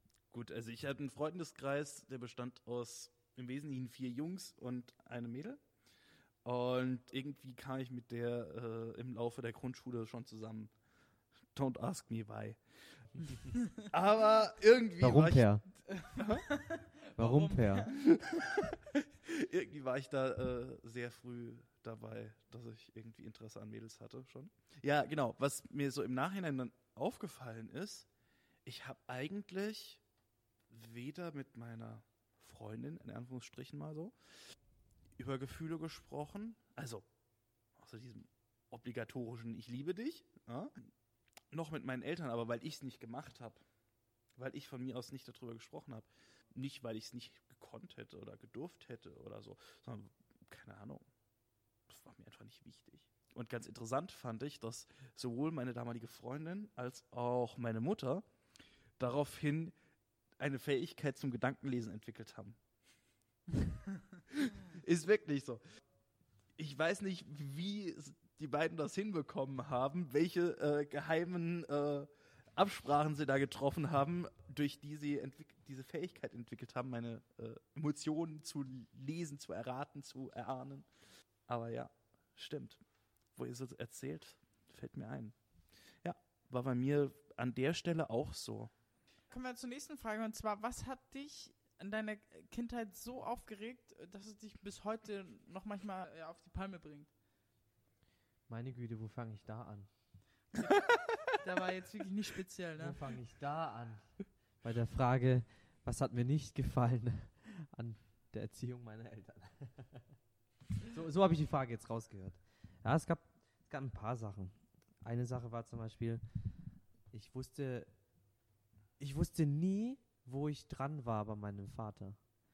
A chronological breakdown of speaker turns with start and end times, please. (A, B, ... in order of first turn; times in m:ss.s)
0:00.3-0:05.6 A
0:06.4-0:10.7 A
0:11.5-0:16.4 A
0:15.0-0:15.6 B
0:15.9-0:18.0 C
0:17.2-0:17.9 B
0:17.9-0:28.1 A
0:28.6-0:30.0 A
0:30.7-0:34.1 A
0:35.2-0:37.0 A
0:37.8-0:40.9 A
0:41.5-0:43.6 A
0:44.4-0:51.0 A
0:51.9-0:58.2 A
0:59.0-0:59.7 A
1:00.4-1:02.6 A
1:04.3-1:05.6 A
1:06.6-1:20.8 A
1:21.5-1:22.8 A
1:23.4-1:25.3 A
1:26.0-1:28.7 A
1:29.3-1:37.1 C
1:38.5-1:39.9 B
1:40.5-1:43.0 C
1:42.8-1:50.1 B
1:50.8-1:56.2 B
1:57.1-1:57.9 B
1:59.0-2:02.2 B